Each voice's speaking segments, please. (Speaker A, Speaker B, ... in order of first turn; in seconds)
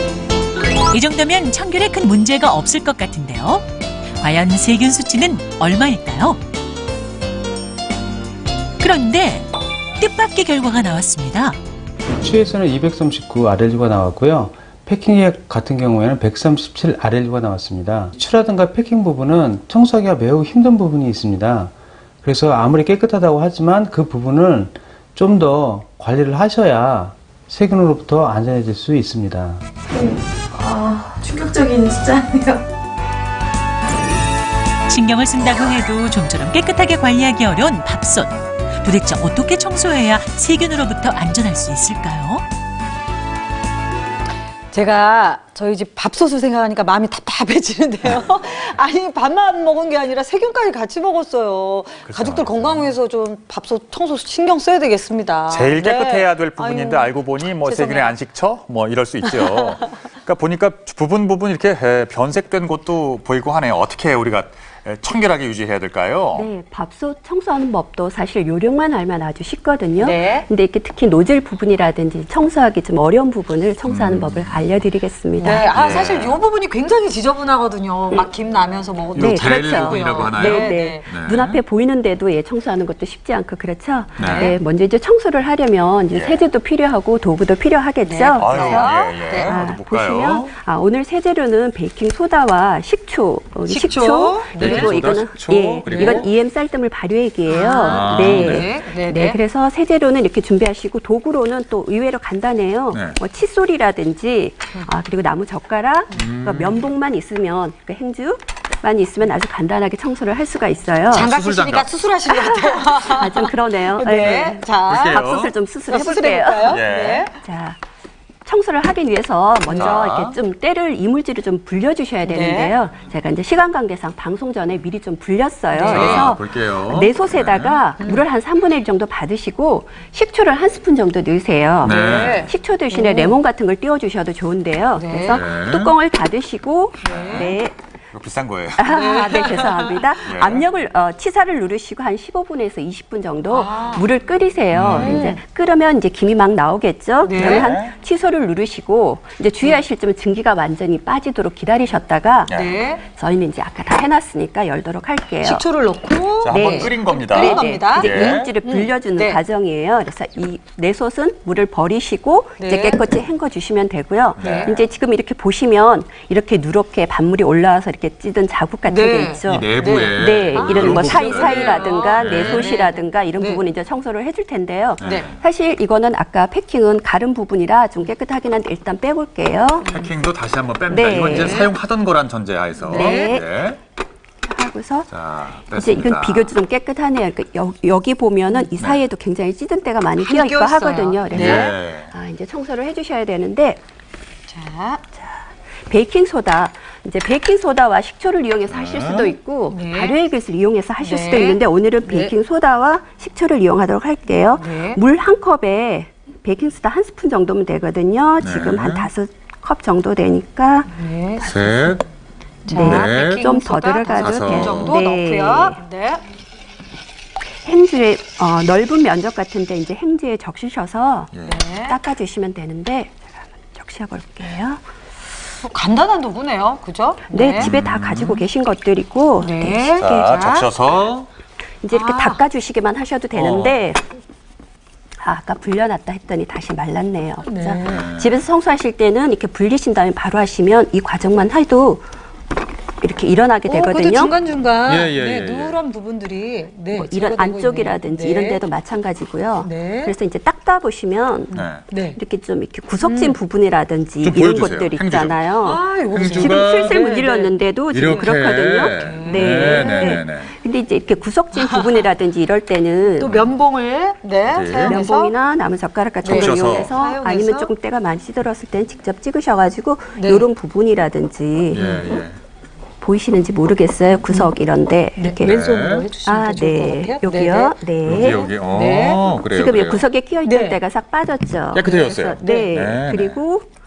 Speaker A: 0.9-6.4, 8.8-11.6, 34.9-42.5
Speaker B: 12.2-29.6
Speaker C: 29.9-32.6
Speaker D: 44.7-58.2, 59.3-59.6, 70.0-70.5, 75.4-81.1, 84.2-84.6, 88.0-89.6, 93.7-95.0, 95.9-96.3, 97.5-99.4, 111.1-115.2, 115.9-117.3, 119.7-120.1, 122.3-122.8, 125.7-126.3, 128.0-128.2, 131.8-133.4, 134.9-135.4, 137.0-137.6, 138.9-140.1, 143.5-144.1, 145.0-145.4, 147.2-147.7, 152.5-153.0, 155.4-159.4, 162.6-163.1, 164.4-164.8, 168.9-173.6, 175.0-175.3, 179.8-180.1, 181.2-181.7, 182.8-183.3, 190.2-191.7, 194.5-195.0, 199.7-200.2, 201.0-202.3, 204.6-205.0, 210.9-211.9, 212.7-216.2, 221.4-222.0, 225.6-227.8, 229.4-230.7, 231.9-232.4, 237.4-238.1, 243.7-248.7, 249.6-250.1, 251.5-252.2, 253.0-253.4, 255.6-260.2, 261.5-262.1, 263.2-265.3, 266.2-267.7, 270.1-270.5, 271.8-272.0, 275.2-279.3, 280.4-280.8, 281.8-282.9
Speaker E: 52.1-52.9, 55.5-66.5, 73.9-74.6, 75.5-76.4, 79.2-81.6, 84.2-84.5, 86.1-86.5, 88.4-90.5, 94.5-96.3, 97.8-98.7, 102.9-103.2, 106.1-106.8, 111.1-111.9, 114.1-115.6, 116.7-117.3, 119.7-120.4, 125.8-127.8, 131.8-132.5, 135.3-135.9, 137.1-137.6, 138.1-138.9, 140.2-140.6, 144.7-145.2, 147.3-147.9, 152.5-152.8, 156.4-158.6, 164.4-164.8, 169.5-172.8, 175.0-175.4, 179.9-183.8, 185.1-186.6, 188.8-189.0, 191.3-192.1, 198.7-199.4, 208.4-209.1, 211.4-212.1, 212.8-213.4, 214.1-215.0, 221.3-221.7, 227.6-228.4, 230.0-231.3, 233.3-233.8, 237.9-238.4, 244.8-245.8, 251.5-251.9, 254.2-255.5, 256.0-257.1, 257.9-260.5, 263.2-263.5, 264.5-265.0, 266.4-267.0, 271.7-272.4, 275.4-276.1, 278.0-280.1, 281.7-283.4
Speaker F: 66.3-76.1, 79.2-111.3, 112.3-116.8, 117.4-117.8, 118.5-137.8, 138.8-155.7, 156.5-180.1, 180.9-181.8, 182.8-183.7, 184.5-185.1, 185.7-193.8, 195.9-211.9, 212.7-215.8, 217.7-224.8, 227.3-230.5, 231.8-234.0, 235.2-242.1, 243.0-244.3, 246.9-263.3, 264.8-271.8, 273.0-275.6, 276.2-278.5, 279.4-283.7